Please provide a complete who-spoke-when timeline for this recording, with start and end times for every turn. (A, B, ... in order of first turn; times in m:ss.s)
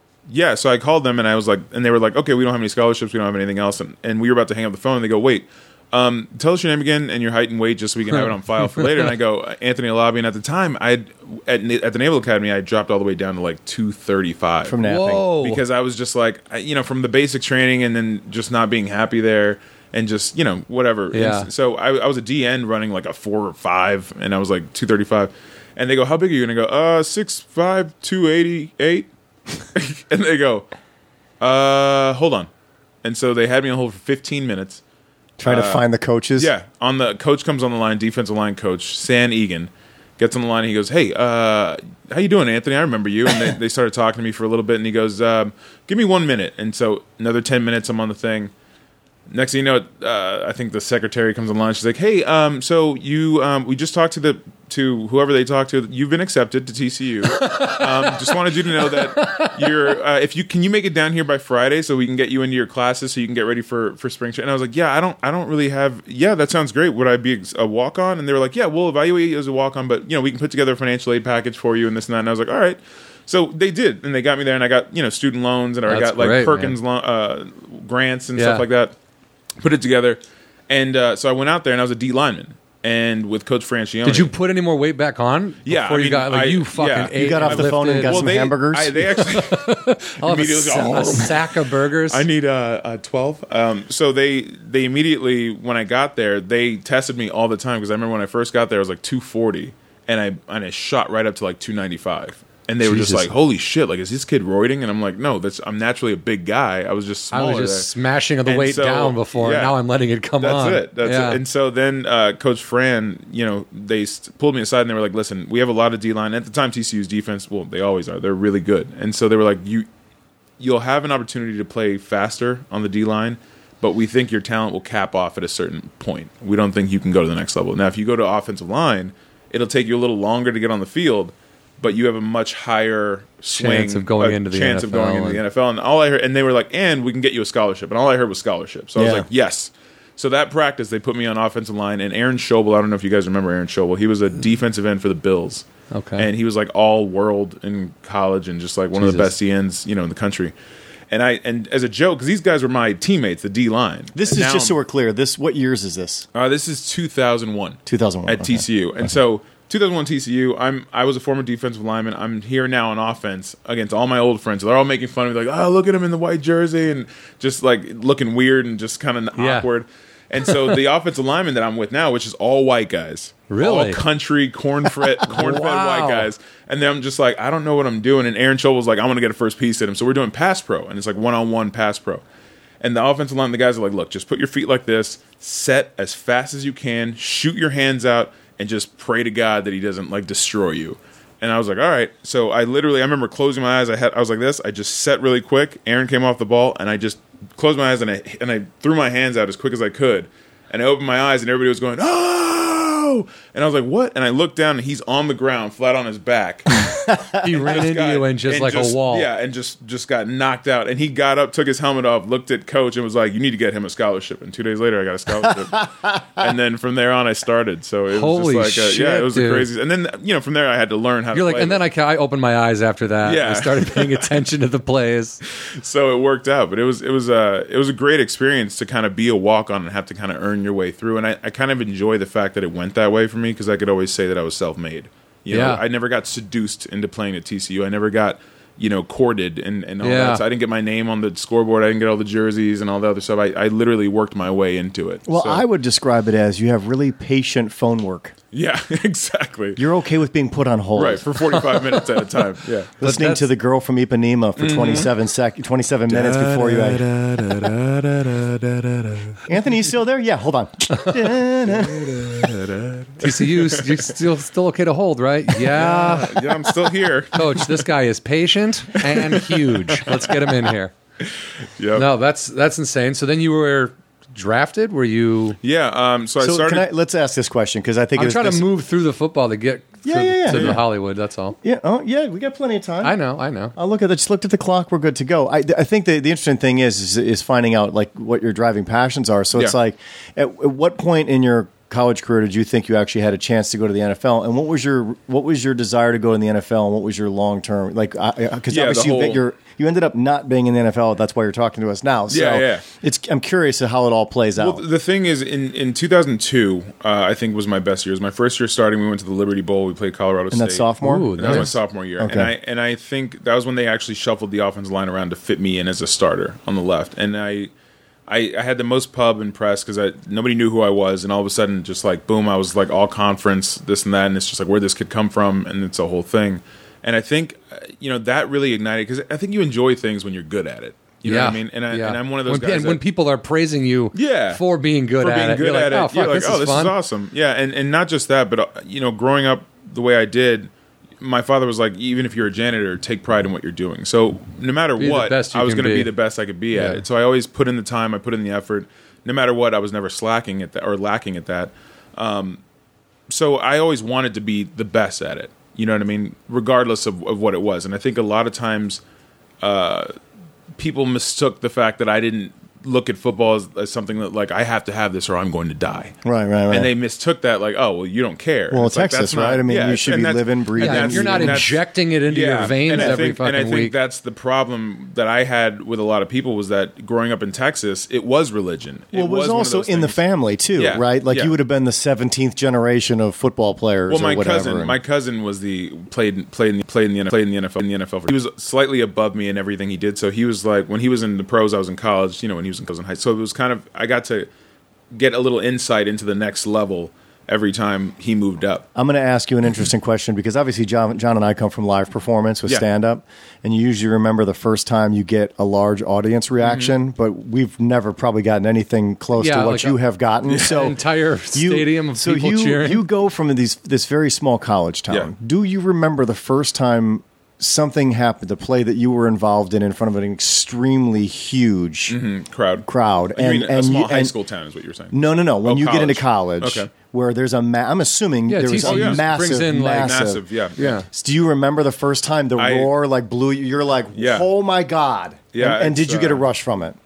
0:00.3-0:14.8 A
0:08.2-0:09.1 B
0:14.6-0:15.3 C
0:14.8-0:15.6 B
0:15.4-0:29.1 A
0:21.1-0:21.5 B
0:29.7-0:30.7 A
0:31.4-0:32.5 A
0:33.0-0:34.8 A
0:35.4-0:36.5 C
0:35.5-0:35.8 A
0:36.4-0:48.5 A
0:49.3-1:19.0 A
0:57.4-0:58.3 B
0:58.8-0:59.5 B
1:15.9-1:16.8 B
1:18.4-1:18.6 B
1:19.6-1:24.3 A
1:24.0-1:28.2 B
1:25.6-1:47.9 A
1:27.2-1:29.1 C
1:29.1-1:32.3 B
1:42.8-1:43.3 B
1:47.3-1:51.4 B
1:48.5-1:49.8 A
1:50.4-1:59.9 A
2:00.6-2:25.7 A
2:13.5-2:15.4 B
2:19.0-2:19.3 C
2:25.9-2:26.3 B
2:26.2-2:30.5 A
2:29.0-2:29.3 B
2:31.1-2:34.8 A
2:34.2-2:36.3 C
2:36.3-3:02.2 A
2:37.9-2:38.7 C
2:49.4-2:49.7 B
2:50.4-2:50.8 B
2:53.5-2:54.0 B
2:55.1-2:56.3 B
3:02.8-3:26.9 A
3:26.9-3:27.4 C
3:27.1-3:29.3 B
3:27.4-3:41.8 A
3:35.8-3:36.2 C
3:38.1-3:39.7 B
3:41.3-3:45.4 B
3:43.2-3:44.4 A
3:45.5-4:05.6 A
3:55.5-3:55.8 B
4:00.0-4:00.4 B
4:05.3-4:08.4 C
4:08.5-4:09.8 A
4:09.8-4:11.3 C
4:11.0-4:12.9 A
4:11.6-4:12.2 B
4:13.0-4:17.1 C
4:13.0-4:13.5 B
4:14.6-4:15.1 A
4:16.1-4:19.4 A
4:19.4-4:22.4 C
4:21.6-4:24.2 A
4:23.2-4:26.8 B
4:25.6-4:27.9 A
4:27.3-4:30.9 B
4:29.0-4:30.7 A
4:31.3-4:32.1 A
4:32.0-4:35.6 B
4:35.6-4:36.9 A
4:36.4-4:38.6 C
4:38.2-4:41.6 B
4:40.0-4:40.8 C
4:40.5-4:40.8 A
4:41.6-4:43.2 C
4:43.0-4:43.7 B
4:43.8-5:04.8 C
4:58.7-4:59.4 A
5:02.3-5:02.8 A
5:04.6-5:17.7 A
5:10.5-5:12.5 C
5:11.0-5:11.8 B
5:18.3-5:33.0 A
5:31.2-5:37.0 B
5:34.1-5:34.6 A
5:35.2-5:52.6 A
5:45.0-5:46.1 B
5:46.7-5:47.0 B
5:53.3-5:59.0 A
5:59.6-6:00.1 A
6:00.8-6:06.2 A
6:06.2-6:06.9 C
6:06.7-6:20.2 A
6:08.7-6:11.7 C
6:10.8-6:13.9 B
6:12.9-6:13.2 C
6:19.1-6:25.0 C
6:20.8-6:21.5 A
6:24.1-6:34.5 A
6:35.1-6:38.9 A
6:39.0-6:51.0 C
6:46.6-6:47.0 A
6:49.4-6:53.1 B
6:51.5-7:02.2 C
7:02.1-7:06.9 A
7:02.8-7:04.3 C
7:05.1-7:10.4 C
7:08.5-7:11.1 B
7:08.8-7:09.3 A
7:10.0-7:11.0 A
7:11.1-7:17.0 C
7:12.6-7:12.9 A
7:14.2-7:14.5 A
7:15.5-7:16.4 A